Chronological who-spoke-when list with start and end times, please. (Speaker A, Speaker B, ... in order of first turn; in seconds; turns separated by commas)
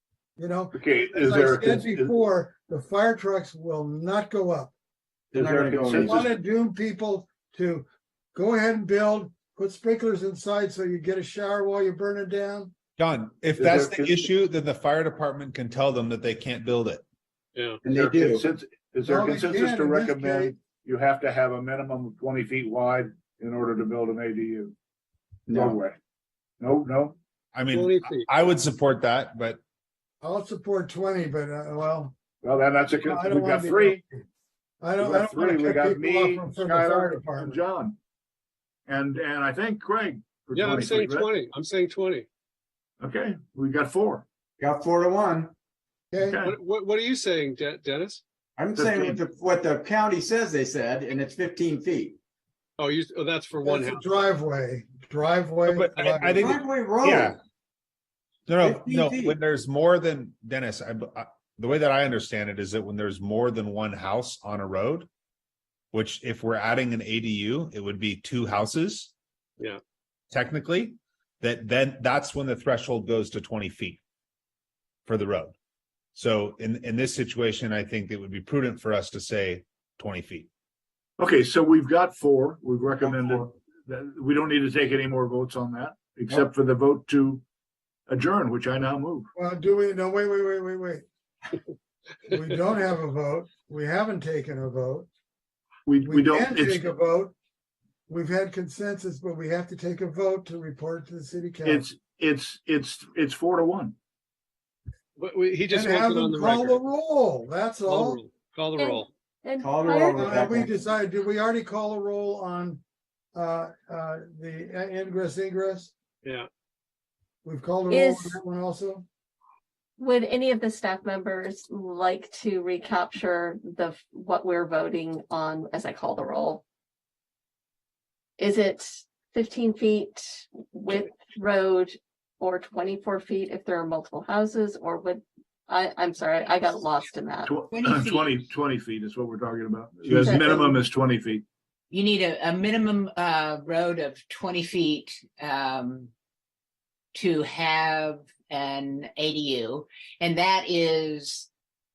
Speaker A: 0.4-4.7, Speaker B: 0.7-2.2, Speaker C: 5.3-6.2, Speaker B: 5.3-6.3, Speaker A: 6.0-12.7, Speaker D: 13.0-17.0, Speaker B: 13.6-14.2, Speaker E: 17.6-18.2, Speaker C: 17.8-18.4, Speaker B: 17.9-24.7, Speaker A: 19.0-20.5, Speaker C: 25.5-25.8, Speaker B: 25.5-25.9, Speaker B: 26.6-27.2, Speaker D: 27.5-29.6, Speaker E: 27.7-28.3, Speaker A: 30.2-32.1, Speaker B: 32.4-34.0, Speaker A: 33.0-34.3, Speaker A: 34.8-37.6, Speaker B: 35.0-38.0, Speaker B: 38.9-41.3, Speaker E: 40.5-42.3, Speaker B: 43.0-44.2, Speaker C: 44.6-45.5, Speaker A: 46.1-46.4, Speaker B: 46.2-46.5, Speaker E: 46.4-48.2, Speaker C: 48.6-52.1, Speaker B: 48.7-49.2, Speaker E: 52.8-54.1, Speaker A: 53.6-56.5, Speaker D: 55.7-57.4, Speaker C: 56.4-57.4, Speaker D: 58.5-65.1, Speaker C: 58.6-59.4, Speaker D: 65.9-69.1, Speaker D: 70.3-74.0, Speaker D: 75.0-75.5, Speaker D: 76.1-80.5, Speaker B: 81.2-87.4, Speaker B: 88.1-89.3, Speaker A: 89.3-91.0, Speaker A: 92.3-95.1, Speaker B: 95.8-96.9, Speaker A: 96.0-97.3, Speaker A: 98.1-101.8, Speaker B: 101.6-104.0, Speaker E: 105.2-106.8, Speaker A: 105.7-108.2, Speaker E: 107.8-109.1, Speaker F: 108.8-110.6, Speaker C: 109.6-110.7, Speaker A: 110.1-112.8, Speaker A: 113.3-115.9, Speaker E: 116.2-116.5, Speaker A: 117.4-119.0, Speaker F: 117.9-118.4, Speaker F: 120.0-126.6, Speaker F: 128.4-137.5, Speaker B: 137.4-141.4, Speaker G: 137.7-138.4, Speaker D: 140.1-140.5, Speaker F: 140.2-140.7, Speaker G: 141.9-146.1, Speaker G: 147.1-151.5